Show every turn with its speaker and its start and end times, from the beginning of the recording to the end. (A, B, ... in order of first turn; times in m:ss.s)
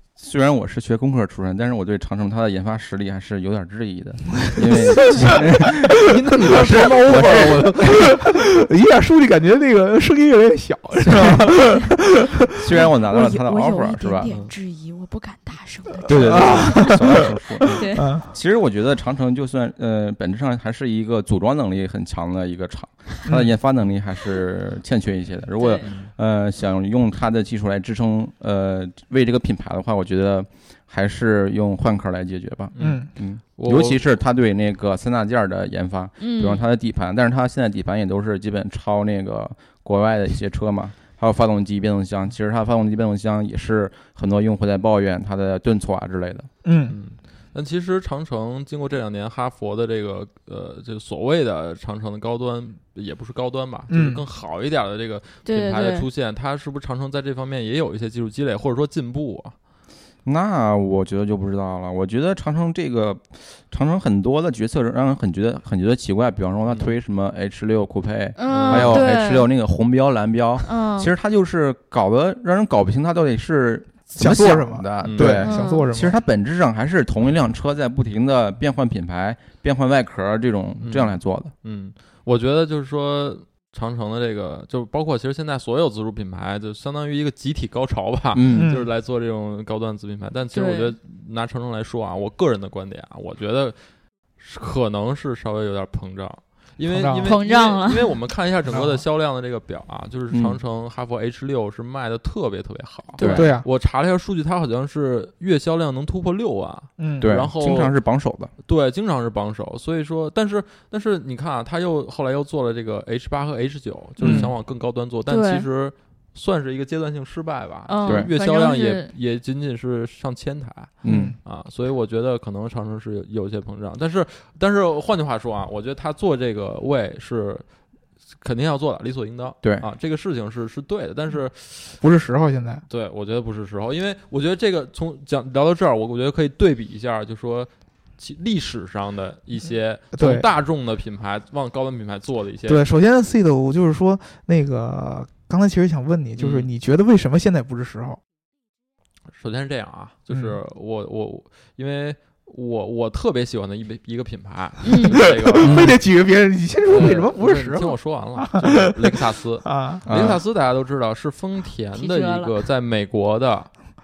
0:00.2-0:08.1 A
0:04.6-0:12.8 B
0:06.1-0:08.0 C
0:11.0-0:11.4 C
0:12.6-0:14.3 A
0:13.0-0:17.0 D
0:14.2-0:14.5 C
0:16.0-0:18.3 B
0:16.1-0:46.5 A
0:17.7-0:18.0 D
0:23.2-0:23.5 B
0:25.6-0:25.9 D
0:25.8-0:26.1 C
0:32.7-0:34.0 C
0:32.8-0:33.1 B
0:36.2-0:36.6 D
0:46.6-0:47.0 B
0:46.9-0:59.5 C
0:53.9-0:54.2 B
0:55.4-0:56.1 D
1:00.2-1:21.5 A
1:06.7-1:06.9 C
1:08.4-1:09.5 D
1:08.5-1:09.0 C
1:10.6-1:11.1 D
1:14.2-1:16.2 B
1:15.0-1:15.4 C
1:15.4-1:15.8 D
1:20.8-1:33.8 C
1:28.3-1:28.7 A
1:28.5-1:28.9 B
1:30.5-1:30.9 D
1:34.4-1:47.9 C
1:36.9-1:37.3 B
1:37.2-1:38.2 D
1:38.7-1:39.0 B
1:40.3-1:40.6 A
1:43.2-1:43.5 A
1:43.2-1:43.7 B
1:47.0-1:47.3 B
1:47.2-1:48.5 A
1:48.6-2:07.6 C
1:54.2-1:54.5 A
1:54.2-1:54.5 B
1:55.3-1:55.6 D
1:57.9-1:59.1 D
2:01.0-2:01.4 A
2:01.0-2:01.4 B
2:08.4-2:12.0 C
2:12.0-2:12.8 B
2:12.9-2:22.8 C
2:20.1-2:20.4 B
2:22.7-2:28.2 B
2:26.4-2:26.7 C
2:29.3-2:36.0 C
2:30.3-2:30.6 B
2:34.8-2:35.2 D
2:35.0-2:40.1 B
2:35.6-2:35.9 A
2:36.8-2:43.7 C
2:40.0-2:40.4 A
2:41.9-2:42.5 D